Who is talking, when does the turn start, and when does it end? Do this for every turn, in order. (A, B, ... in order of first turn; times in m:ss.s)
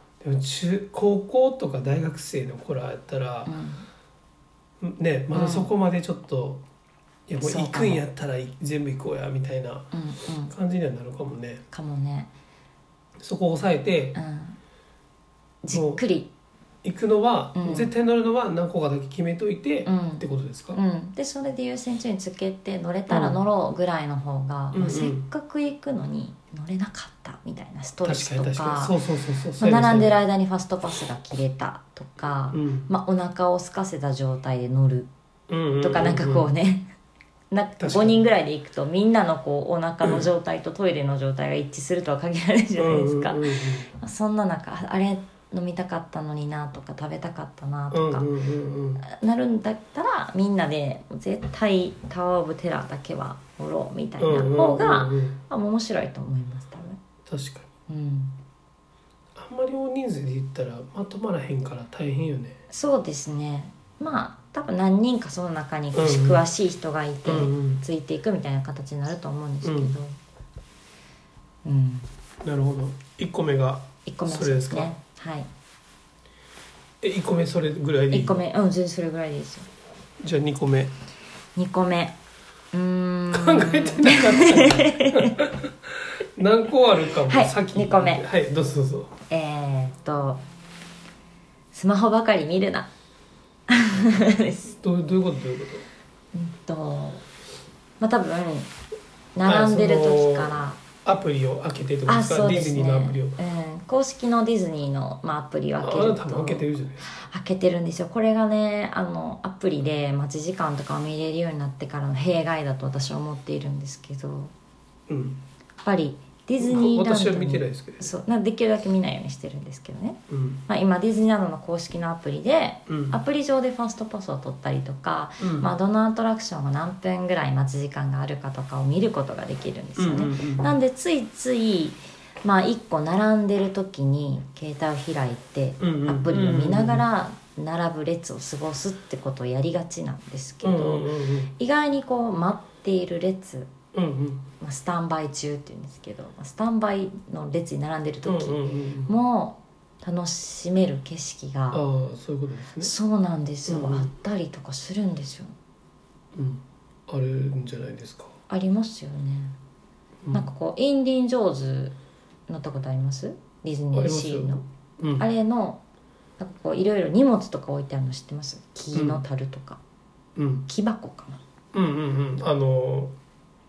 0:00.2-0:03.6 A
0:03.4-0:03.9 B
0:04.8-0:06.6 A
0:05.3-0:05.7 B
0:07.3-0:09.9 A
0:07.4-0:08.0 B
0:09.9-0:10.5 B
0:10.5-0:11.6 A
0:11.7-0:12.3 B
0:13.2-0:14.2 A
0:14.1-0:14.6 B
0:15.6-0:16.3 B
0:15.7-0:16.0 A
0:16.8-0:20.8 A
0:17.5-0:17.9 B
0:19.8-0:29.0 B
0:23.1-0:23.4 A
0:24.7-0:25.2 A
0:28.0-0:30.2 A
0:29.6-0:35.1 B
0:32.5-0:32.9 A
0:35.5-0:36.5 A
0:35.8-0:36.9 B
0:37.5-0:43.4 B
0:37.8-0:38.3 A
0:42.8-0:43.9 A
0:44.0-0:48.3 B
0:47.9-0:49.0 A
0:49.0-0:57.0 B
0:54.2-0:55.4 A
0:57.3-0:57.7 A
0:57.9-0:58.4 B
0:59.4-1:02.6 A
1:02.7-1:10.2 B
1:05.9-1:06.4 A
1:07.2-1:07.8 A
1:09.6-1:10.0 A
1:11.6-1:12.1 B
1:12.4-1:14.9 A
1:14.0-1:15.5 B
1:17.0-1:18.4 A
1:18.1-1:19.7 B
1:20.2-1:20.9 A
1:21.6-1:22.2 B
1:22.7-1:25.4 B
1:23.3-1:25.6 A
1:26.4-1:29.1 A
1:27.3-1:28.2 B
1:29.3-1:30.4 B
1:31.7-1:32.9 B
1:33.7-1:34.7 B
1:34.8-1:35.9 A
1:36.3-1:37.2 B
1:38.0-1:38.7 B
1:39.3-1:40.8 B
1:39.4-1:43.4 A
1:42.0-1:54.5 B
1:45.8-1:47.1 A
1:55.1-1:55.4 A
1:55.8-2:23.7 B
1:56.6-1:58.1 A
2:00.3-2:00.6 A
2:02.9-2:03.2 A
2:05.4-2:05.7 A
2:10.0-2:10.7 A
2:15.8-2:17.0 A
2:20.6-2:21.5 A
2:23.9-2:24.5 A
2:24.6-2:31.8 B
2:28.2-2:29.1 A
2:31.7-2:32.9 A
2:32.8-2:35.5 B
2:33.7-2:34.1 A
2:36.3-2:38.3 A
2:38.5-2:39.5 B
2:40.3-2:42.0 B
2:42.5-2:44.6 B
2:43.9-2:45.2 A
2:45.2-2:45.8 B
2:46.4-2:49.8 B
2:48.9-2:49.2 A
2:50.4-2:50.7 A
2:50.7-2:51.4 B
2:51.7-2:53.2 A